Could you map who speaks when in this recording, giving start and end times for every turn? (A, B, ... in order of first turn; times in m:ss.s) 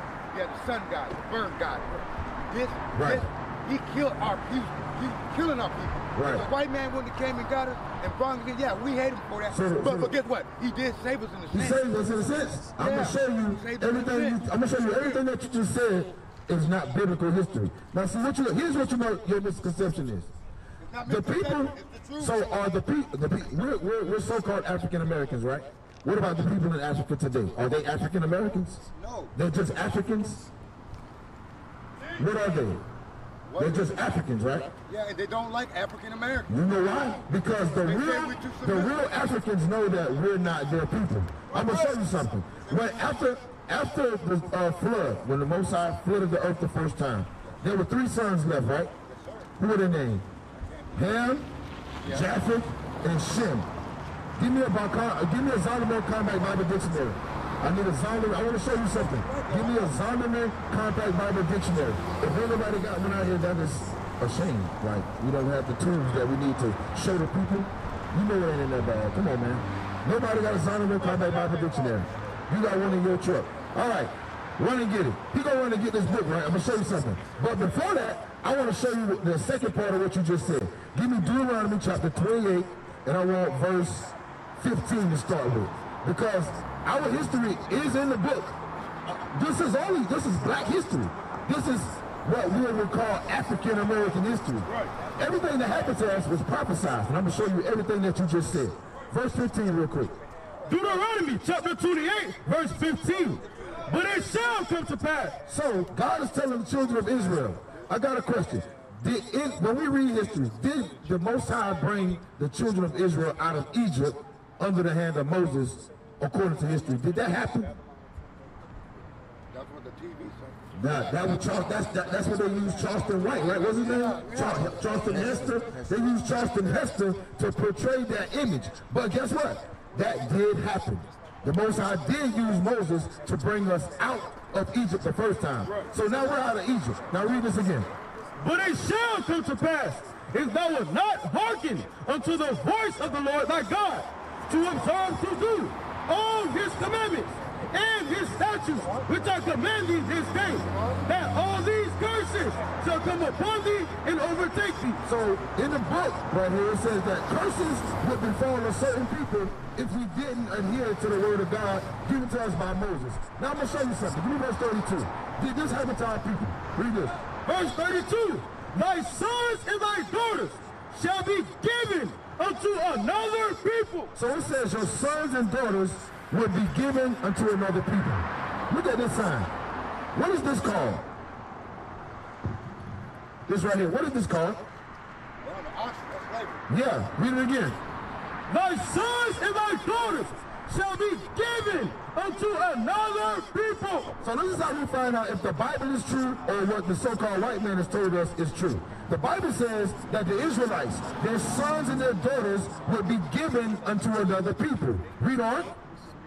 0:00.3-0:11.8 A
0:02.9-0:03.2 B
0:06.1-0:06.4 B
0:09.5-0:10.1 B
0:11.5-0:20.3 B
0:12.8-0:15.2 A
0:20.8-0:22.7 A
0:21.0-0:28.8 B
0:28.9-0:29.3 A
0:29.3-0:30.5 B
0:32.2-0:32.8 B
0:33.5-0:34.0 A
0:33.6-0:34.7 B
0:34.7-0:36.5 A
0:36.5-0:48.9 B
0:37.8-0:39.1 A
0:49.0-0:49.5 A
0:49.6-0:50.3 B
0:50.5-0:51.1 A
0:50.9-0:51.5 B
0:52.0-0:52.3 A
0:52.0-0:53.7 B
0:54.4-1:40.2 B
0:58.9-1:00.0 A
1:11.2-1:11.7 A
1:40.7-1:45.4 C
1:45.4-1:57.7 B
1:59.5-2:01.1 A
2:00.7-2:17.9 B
2:03.7-2:05.4 A
2:18.4-2:35.0 C
2:28.8-2:29.1 A
2:30.7-2:31.0 A
2:35.0-2:47.1 B
2:47.4-2:54.1 C
2:54.1-2:59.5 B
3:00.1-3:01.0 B
3:03.5-3:04.6 B
3:05.4-3:06.6 A
3:06.7-3:07.8 B
3:08.5-3:14.1 C
3:14.2-3:25.8 B